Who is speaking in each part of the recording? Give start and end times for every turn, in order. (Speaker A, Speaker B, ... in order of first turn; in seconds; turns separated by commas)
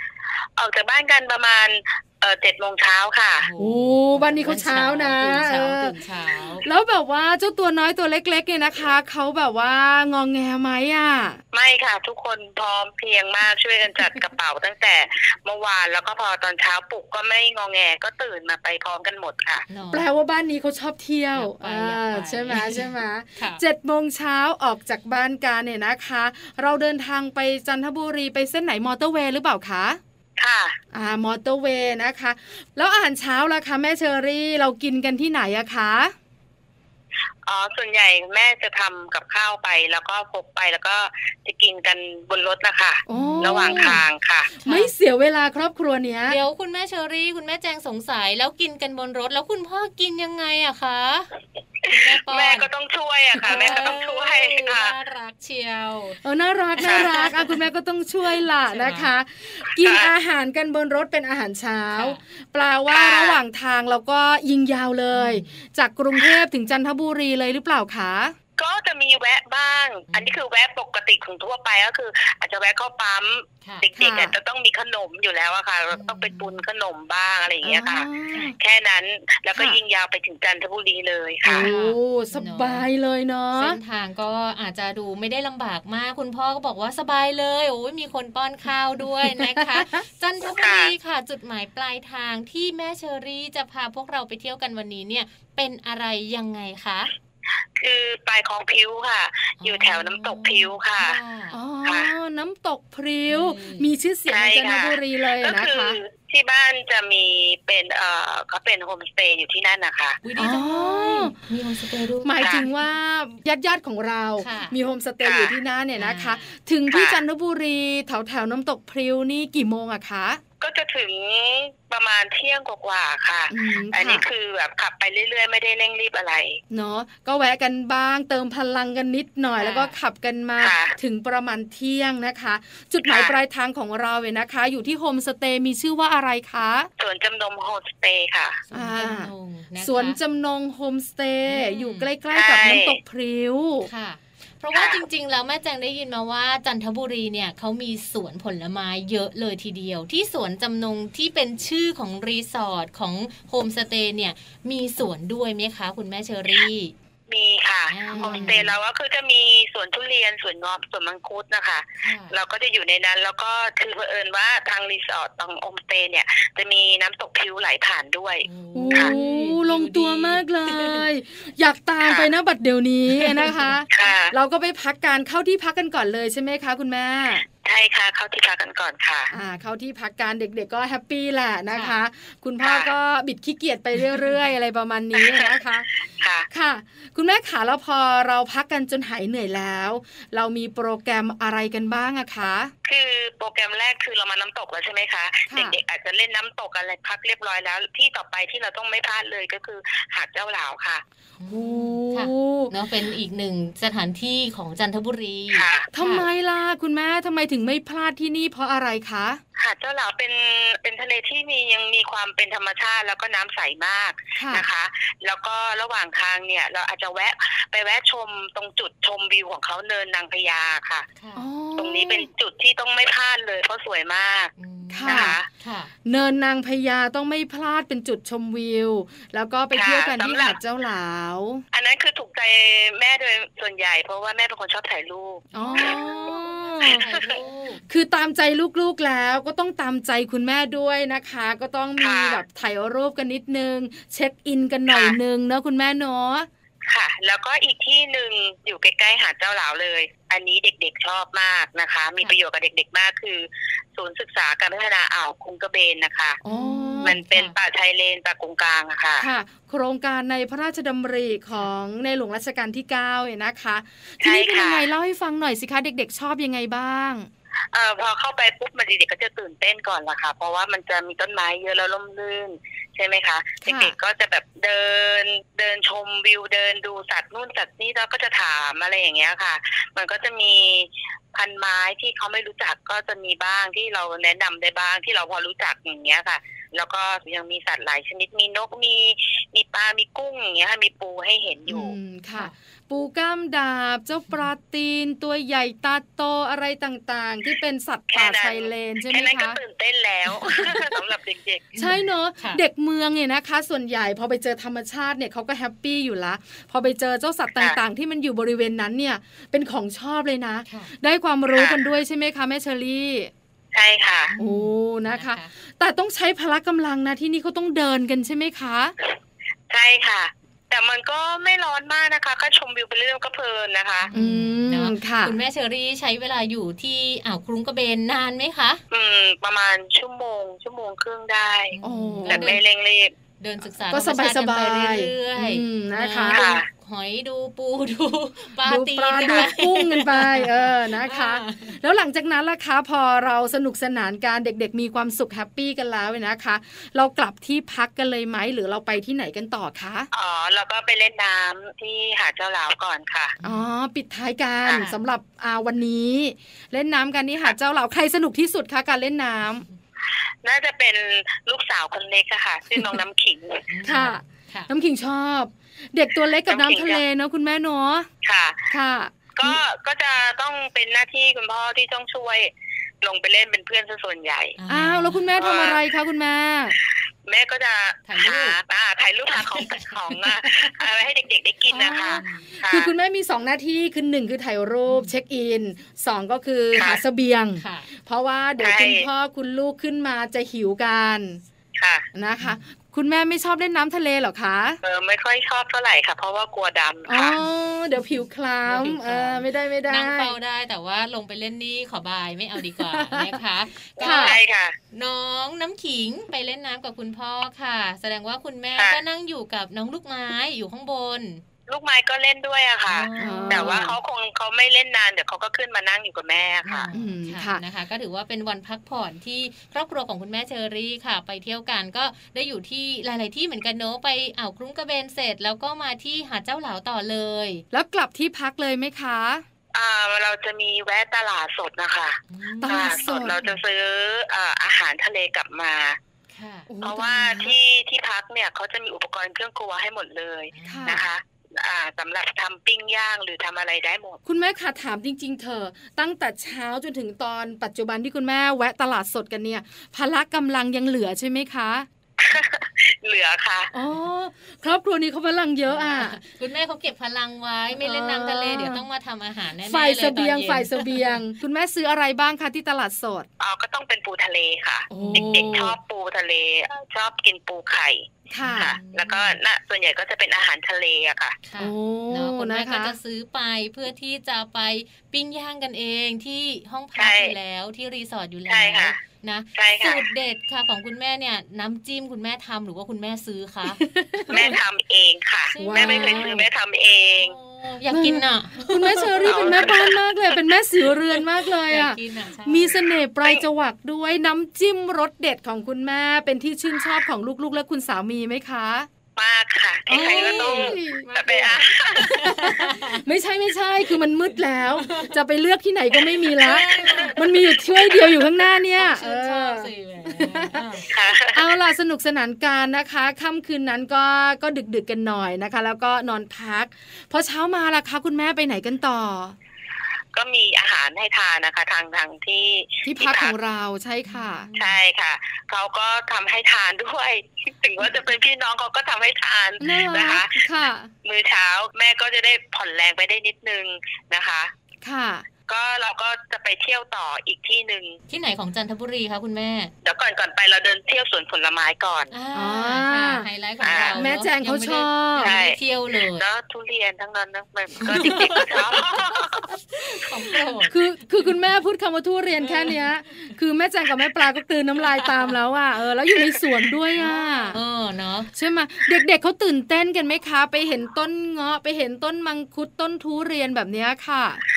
Speaker A: 0.6-3.5, Speaker B: 3.4-6.7, Speaker C: 3.6-6.0, Speaker C: 6.6-11.4, Speaker A: 11.5-19.6, Speaker B: 19.7-20.1, Speaker C: 19.9-30.0, Speaker B: 21.4-23.6, Speaker A: 30.4-30.8, Speaker C: 30.9-36.1, Speaker A: 37.5-44.5, Speaker C: 43.1-44.0, Speaker B: 43.1-44.0, Speaker B: 44.6-44.9, Speaker C: 44.6-46.4, Speaker B: 46.3-51.3, Speaker B: 51.9-52.7, Speaker A: 51.9-55.0, Speaker B: 53.4-56.2, Speaker C: 53.5-54.0, Speaker C: 56.2-68.3, Speaker B: 56.8-57.6, Speaker B: 58.7-59.1, Speaker A: 59.8-60.1, Speaker B: 61.9-62.2, Speaker A: 62.9-63.4, Speaker B: 65.1-65.6, Speaker A: 68.6-78.1, Speaker B: 70.1-70.4, Speaker C: 73.9-74.4, Speaker B: 75.9-76.6, Speaker C: 77.6-78.5, Speaker A: 78.6-81.7, Speaker C: 81.4-83.8, Speaker B: 81.6-82.9, Speaker B: 83.6-97.1, Speaker A: 90.6-90.9, Speaker A: 97.8-101.2, Speaker B: 99.6-101.6, Speaker C: 101.5-106.0, Speaker A: 101.9-102.1, Speaker B: 103.3-103.9, Speaker A: 104.3-110.2, Speaker B: 110.2-112.7, Speaker C: 110.4-111.3, Speaker C: 112.2-120.4, Speaker A: 112.4-112.7, Speaker B: 114.4-114.8, Speaker A: 115.2-115.6, Speaker B: 116.0-116.6, Speaker A: 116.9-117.2, Speaker A: 120.6-126.6, Speaker C: 123.5-124.2, Speaker C: 126.7-136.9, Speaker B: 129.6-130.0, Speaker A: 130.6-131.0, Speaker A: 133.1-133.3, Speaker A: 137.0-138.6, Speaker B: 138.7-140.2, Speaker C: 138.7-143.9, Speaker B: 141.5-142.1, Speaker A: 142.3-143.0, Speaker B: 143.8-156.9, Speaker A: 144.8-145.0, Speaker A: 157.3-169.1, Speaker B: 157.9-158.7, Speaker C: 158.2-158.7, Speaker B: 162.0-162.4, Speaker B: 168.4-171.1, Speaker C: 168.8-177.4, Speaker A: 172.0-172.3, Speaker B: 173.1-173.7, Speaker A: 173.9-174.3, Speaker A: 177.6-179.3, Speaker C: 179.3-185.9, Speaker A: 182.6-182.9, Speaker B: 184.0-184.4, Speaker A: 185.2-185.5, Speaker A: 186.2-186.5, Speaker C: 186.5-192.7, Speaker A: 192.9-201.0, Speaker C: 195.5-195.8, Speaker B: 201.4-206.3, Speaker C: 201.5-202.7, Speaker A: 205.5-205.9, Speaker C: 205.9-209.4, Speaker A: 209.6-221.1, Speaker C: 214.4-214.7, Speaker B: 221.2-221.4, Speaker C: 221.3-222.3, Speaker A: 221.8-224.5, Speaker B: 224.6-225.9, Speaker C: 224.9-225.4, Speaker A: 225.1-225.5, Speaker C: 226.1-231.6, Speaker A: 229.7-230.6, Speaker A: 231.7-236.0, Speaker B: 235.5-237.8, Speaker C: 235.5-237.1, Speaker A: 236.8-237.4, Speaker C: 237.9-246.5, Speaker A: 242.0-242.4, Speaker A: 244.9-245.2, Speaker A: 246.9-256.4, Speaker C: 256.4-257.1, Speaker B: 256.5-257.6, Speaker A: 257.0-259.3, Speaker C: 259.2-267.3, Speaker A: 264.2-264.9, Speaker A: 267.7-292.0, Speaker C: 273.6-274.0, Speaker C: 291.7-299.6, Speaker A: 298.1-301.7, Speaker C: 300.4-301.0, Speaker B: 301.7-302.6, Speaker C: 301.8-313.3, Speaker A: 311.5-311.8, Speaker A: 313.7-314.3, Speaker B: 314.3-315.5, Speaker C: 314.4-318.9, Speaker A: 319.7-324.1, Speaker B: 324.1-328.8, Speaker C: 324.1-325.4, Speaker A: 328.9-331.8, Speaker B: 331.7-332.6, Speaker C: 331.8-332.6, Speaker A: 332.3-333.1, Speaker B: 333.4-341.8, Speaker C: 333.9-336.5, Speaker A: 336.3-336.7, Speaker C: 338.6-350.1, Speaker A: 339.3-339.5, Speaker A: 350.1-353.3, Speaker B: 353.4-353.7, Speaker C: 353.4-359.7, Speaker A: 360.4-363.6, Speaker B: 363.7-364.7, Speaker C: 363.9-368.1, Speaker A: 366.5-367.0, Speaker A: 368.2-368.7, Speaker C: 368.7-369.6, Speaker A: 369.4-374.6, Speaker B: 374.6-375.3, Speaker C: 374.7-376.8, Speaker A: 375.4-375.8, Speaker A: 377.2-382.9, Speaker B: 378.1-378.6, Speaker B: 379.4-380.2, Speaker C: 381.7-391.4, Speaker B: 382.0-382.5, Speaker B: 384.9-385.1, Speaker B: 387.6-387.9, Speaker A: 388.6-389.1, Speaker A: 391.8-392.1, Speaker C: 392.1-394.8, Speaker A: 394.8-397.4, Speaker C: 397.1-400.3, Speaker B: 398.7-404.4, Speaker C: 402.8-403.4, Speaker A: 404.0-404.8, Speaker C: 404.0-404.4, Speaker B: 404.9-411.4, Speaker A: 411.7-416.9, Speaker B: 412.9-413.9, Speaker C: 413.2-413.9, Speaker B: 416.6-427.6, Speaker C: 416.9-417.6, Speaker C: 427.7-429.4, Speaker A: 429.7-436.0, Speaker B: 432.3-433.6, Speaker C: 432.6-433.4, Speaker B: 436.3-436.7, Speaker C: 436.7-437.6, Speaker A: 436.8-444.2, Speaker B: 440.5-441.0, Speaker C: 440.6-441.1, Speaker C: 444.3-451.9, Speaker A: 452.2-453.7, Speaker C: 453.7-456.2, Speaker B: 455.7-461.2, Speaker C: 457.8-458.8, Speaker C: 459.6-463.3, Speaker A: 463.4-471.4, Speaker C: 464.9-465.8, Speaker B: 465.0-465.4, Speaker C: 468.3-468.8, Speaker B: 468.5-469.4, Speaker B: 471.4-484.6, Speaker C: 471.6-472.9, Speaker A: 477.0-477.4, Speaker A: 478.5-479.0, Speaker A: 479.6-480.0, Speaker C: 483.8-484.6, Speaker A: 484.3-487.4, Speaker B: 485.5-486.4, Speaker C: 485.6-486.5, Speaker B: 487.2-489.7, Speaker C: 487.9-498.9, Speaker A: 489.3-490.0, Speaker B: 491.7-492.8, Speaker A: 499.2-502.0, Speaker C: 499.9-519.4, Speaker B: 499.9-503.0, Speaker B: 504.8-505.1, Speaker B: 506.3-508.0, Speaker B: 508.8-510.9, Speaker A: 510.9-511.5, Speaker A: 520.1-523.3, Speaker C: 522.9-524.5, Speaker B: 524.1-524.8, Speaker A: 524.6-530.4, Speaker C: 529.6-530.9, Speaker A: 531.0-534.5, Speaker C: 534.8-535.3, Speaker A: 535.5-538.0, Speaker B: 538.1-539.7, Speaker A: 539.8-542.1, Speaker B: 542.1-546.2, Speaker C: 542.3-543.3, Speaker A: 543.6-544.0, Speaker C: 543.9-545.4, Speaker A: 545.2-545.6, Speaker A: 546.1-549.5, Speaker B: 547.8-549.0, Speaker C: 548.0-548.5, Speaker B: 549.7-550.8, Speaker C: 550.7-557.6, Speaker B: 552.4-552.8, Speaker B: 554.8-555.3, Speaker B: 557.0-558.3, Speaker C: 558.3-564.4